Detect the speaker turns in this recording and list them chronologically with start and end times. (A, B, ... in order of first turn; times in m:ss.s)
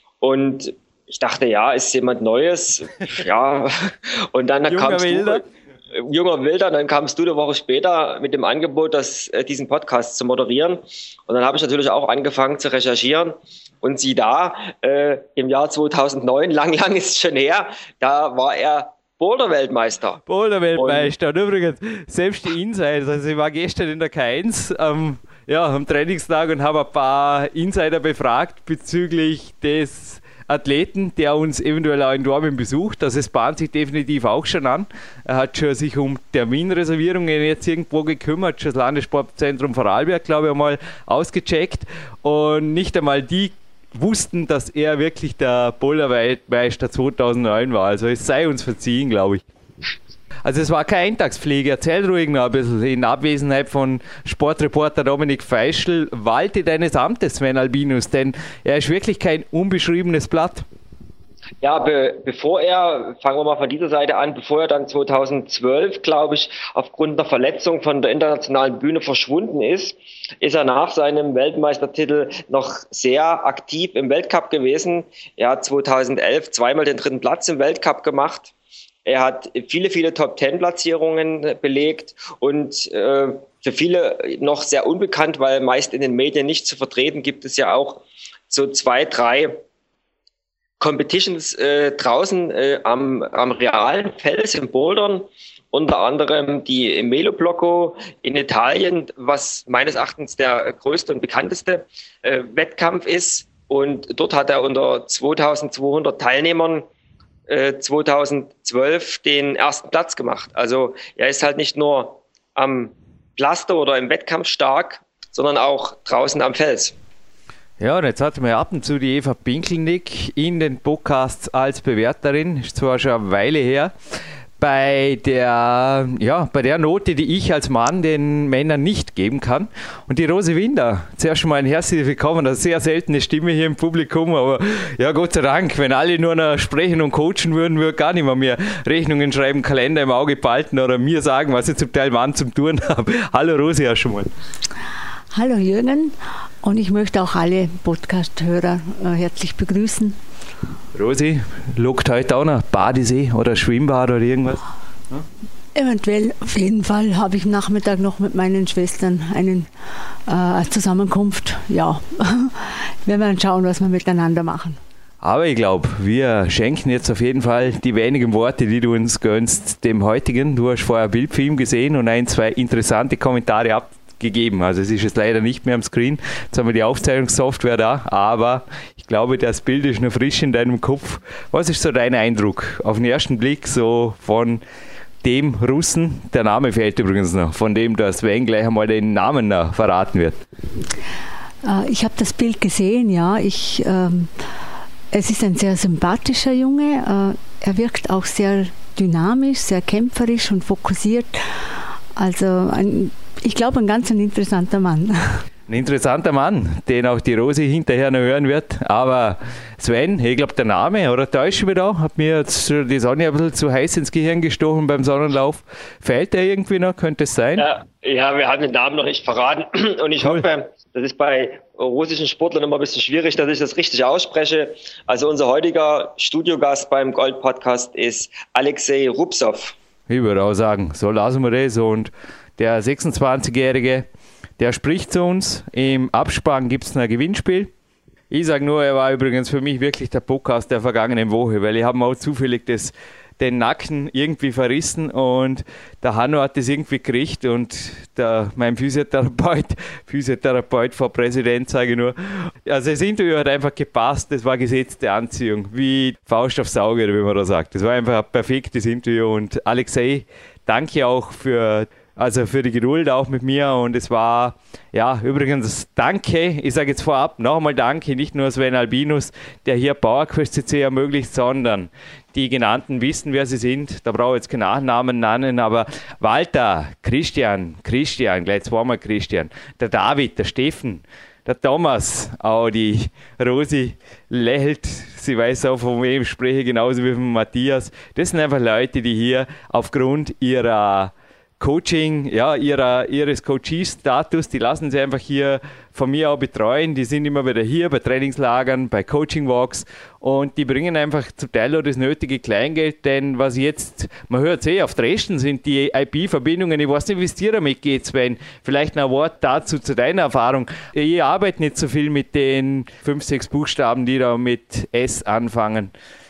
0:00.2-0:20.2 A
0:04.7-0:05.4 B
0:20.3-0:49.4 B
0:20.8-0:21.1 A
0:50.4-1:00.6 B
1:01.6-1:18.5 A
1:19.0-1:29.6 A
1:30.8-1:46.9 A
1:47.5-1:57.0 A
1:57.8-2:03.9 B
2:04.6-2:24.3 B
2:25.3-2:30.2 C
2:30.9-2:35.2 B
2:35.7-2:39.7 C
2:40.3-2:44.8 C
2:45.2-3:04.6 B
3:05.2-3:10.4 B
3:11.6-3:14.3 C
3:15.1-3:21.4 C
3:22.2-3:25.4 C
3:25.7-3:37.7 B
3:37.6-3:49.8 A
3:50.1-3:54.1 B
3:54.6-3:57.7 B
3:58.3-5:15.9 B